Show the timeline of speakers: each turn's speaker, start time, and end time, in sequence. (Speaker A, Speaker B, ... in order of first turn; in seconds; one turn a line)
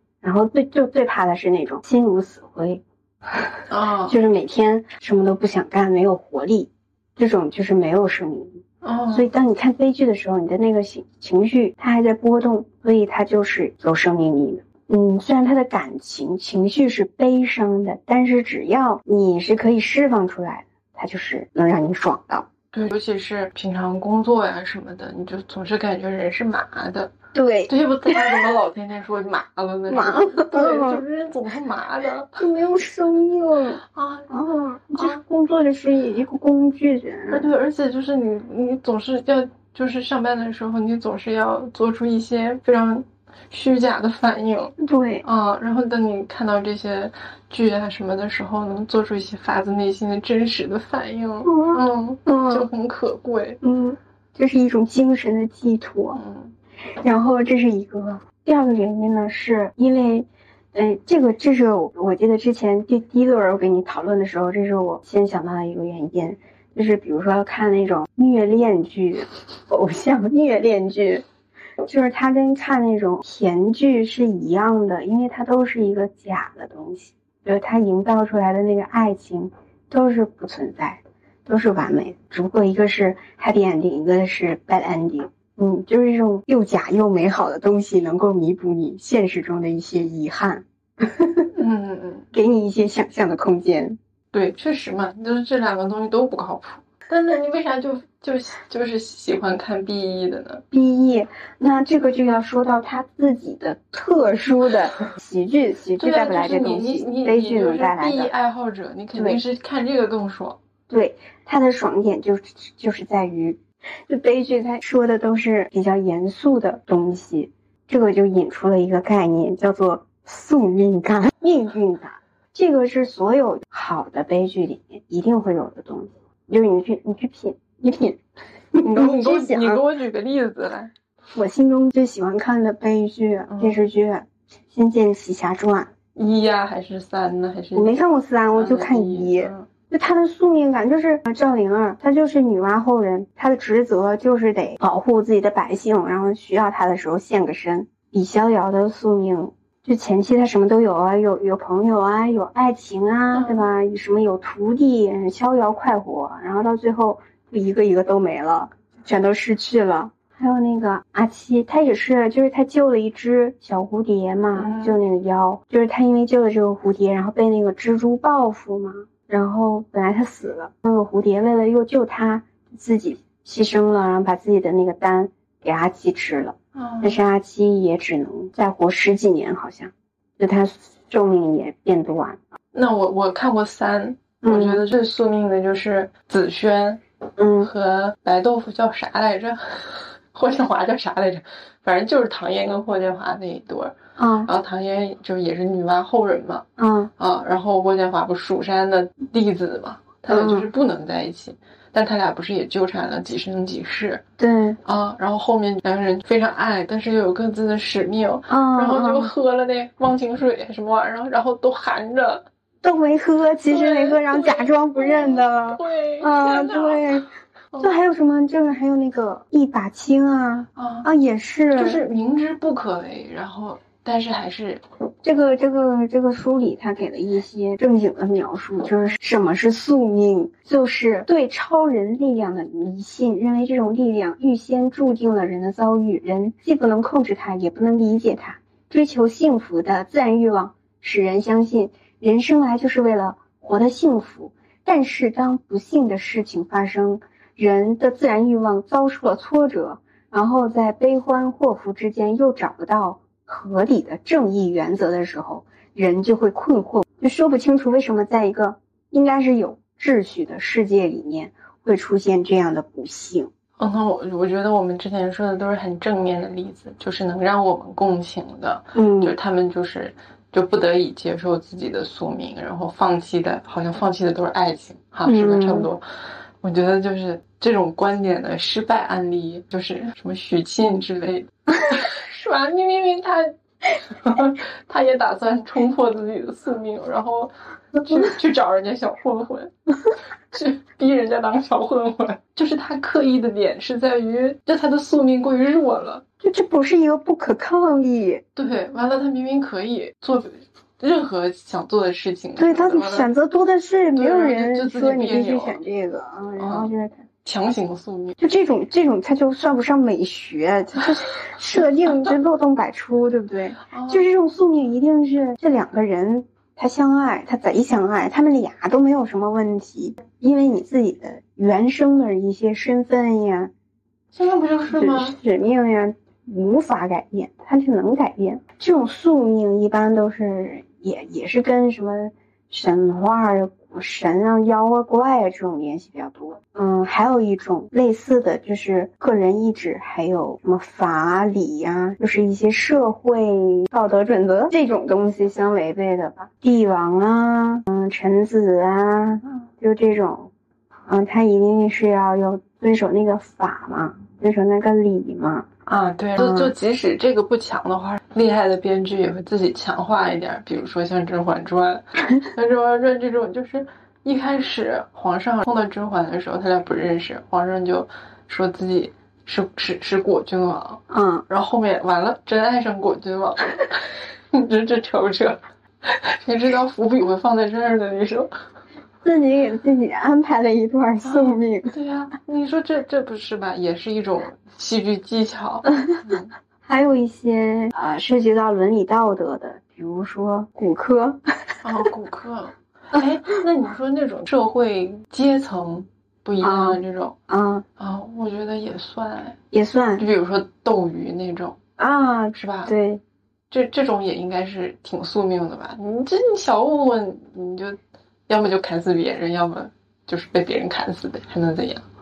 Speaker A: 0.2-3.5
Speaker B: 3.7-4.2
Speaker A: 4.0-22.5
Speaker B: 8.8-9.3
Speaker B: 22.7-32.4
Speaker A: 27.3-28.5
Speaker A: 29.9-31.0
Speaker A: 32.4-37.5
Speaker B: 33.9-34.3
Speaker B: 34.9-35.2
Speaker B: 37.3-53.6
Speaker A: 44.8-45.2
Speaker A: 51.5-52.7
Speaker A: 53.6-56.2
Speaker B: 56.1-56.5
Speaker A: 57.0-71.2
Speaker A: 71.8-91.5
Speaker B: 91.5-92.3
Speaker A: 92.3-94.0
Speaker B: 94.3-100.6
Speaker A: 100.7-108.3
Speaker B: 106.0-110.6
Speaker A: 109.1-109.4
Speaker A: 110.9-128.2
Speaker A: 128.7-129.8
Speaker B: 128.9-130.9
Speaker A: 131.3-135.9
Speaker B: 133.5-133.8
Speaker B: 136.2-138.0
Speaker A: 137.7-182.4
Speaker B: 138.6-139.7
Speaker B: 153.3-153.7
Speaker B: 164.6-165.0
Speaker B: 176.7-177.2
Speaker B: 182.7-187.0
Speaker A: 184.4-184.8
Speaker A: 187.4-187.7
Speaker B: 187.6-196.7
Speaker A: 194.2-194.5
Speaker A: 196.8-197.1
Speaker B: 197.2-204.2
Speaker A: 200.3-200.7
Speaker A: 204.4-204.8
Speaker B: 204.8-212.4
Speaker A: 208.5-209.3
Speaker A: 212.8-222.0
Speaker B: 213.7-217.1
Speaker B: 220.8-221.1
Speaker B: 221.7-224.8
Speaker A: 225.2-263.5
Speaker B: 263.8-283.5
Speaker A: 268.9-269.3
Speaker A: 275.2-275.9
Speaker B: 284.1-296.2
Speaker A: 296.4-298.4
Speaker B: 298.6-303.3
Speaker A: 302.6-307.2
Speaker B: 304.1-305.8
Speaker B: 306.6-306.9
Speaker B: 307.4-308.4
Speaker A: 308.4-323.7
Speaker B: 313.9-314.2
Speaker B: 324.3-325.4
Speaker A: 324.9-350.5
Speaker A: 351.1-355.7
Speaker B: 355.9-378.5
Speaker A: 356.4-356.7
Speaker A: 371.1-371.4
Speaker A: 379.2-381.9
Speaker B: 381.2-386.5
Speaker A: 386.9-391.4
Speaker B: 391.8-397.4
Speaker A: 396.6-397.8
Speaker B: 398.0-399.6
Speaker A: 399.7-400.2
Speaker B: 400.2-401.8
Speaker A: 402.0-403.2
Speaker B: 402.5-402.9
Speaker B: 403.7-412.0